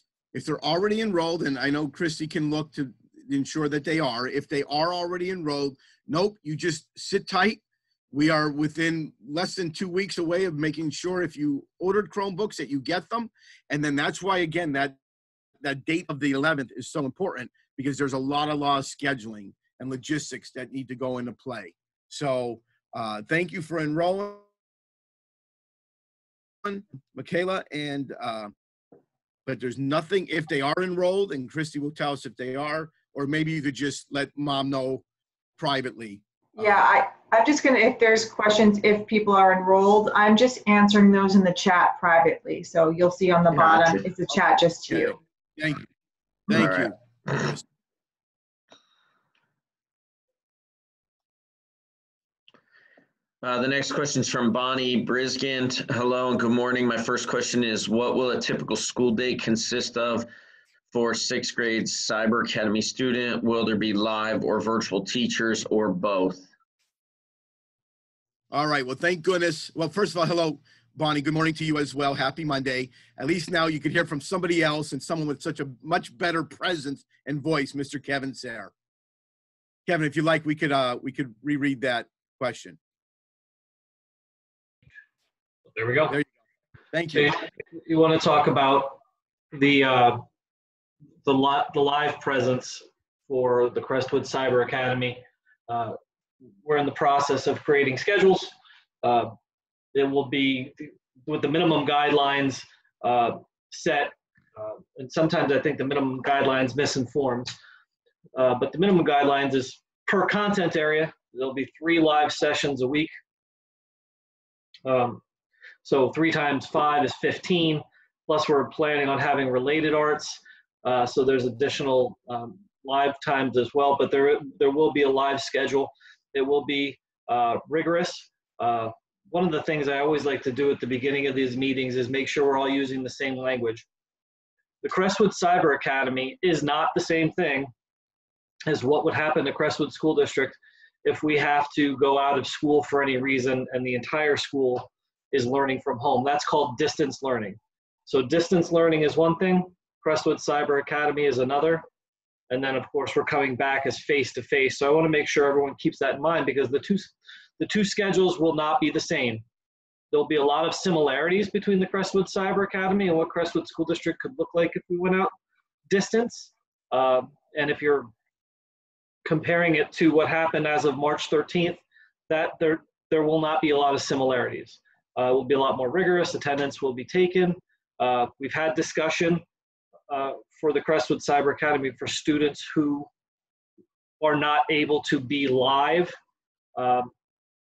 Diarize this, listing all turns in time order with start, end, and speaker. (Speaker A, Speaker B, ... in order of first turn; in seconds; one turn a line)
Speaker A: 0.3-7.6
Speaker A: 8.1-15.0
Speaker A: 15.6-24.5
Speaker A: 26.6-28.5
Speaker A: 29.4-35.0
Speaker A: 35.6-36.2
Speaker B: 36.5-45.2
Speaker A: 44.9-45.8
Speaker A: 46.5-47.6
Speaker C: 46.5-46.9
Speaker C: 53.4-60.3
Speaker C: 60.9-66.5
Speaker A: 68.5-78.7
Speaker A: 79.8-82.8
Speaker D: 85.7-86.1
Speaker A: 86.9-87.4
Speaker D: 87.1-89.0
Speaker D: 89.5-90.2
Speaker D: 91.2-96.0
Speaker D: 96.6-99.3
Speaker D: 99.9-107.5
Speaker D: 108.3-113.1
Speaker D: 114.8-115.2
Speaker D: 115.8-133.8
Speaker D: 134.8-137.7
Speaker D: 138.7-151.8
Speaker D: 152.5-159.4
Speaker D: 160.1-165.3
Speaker D: 165.9-168.1
Speaker D: 169.2-179.4
Speaker D: 180.1-183.1
Speaker D: 184.2-186.1
Speaker D: 186.7-187.1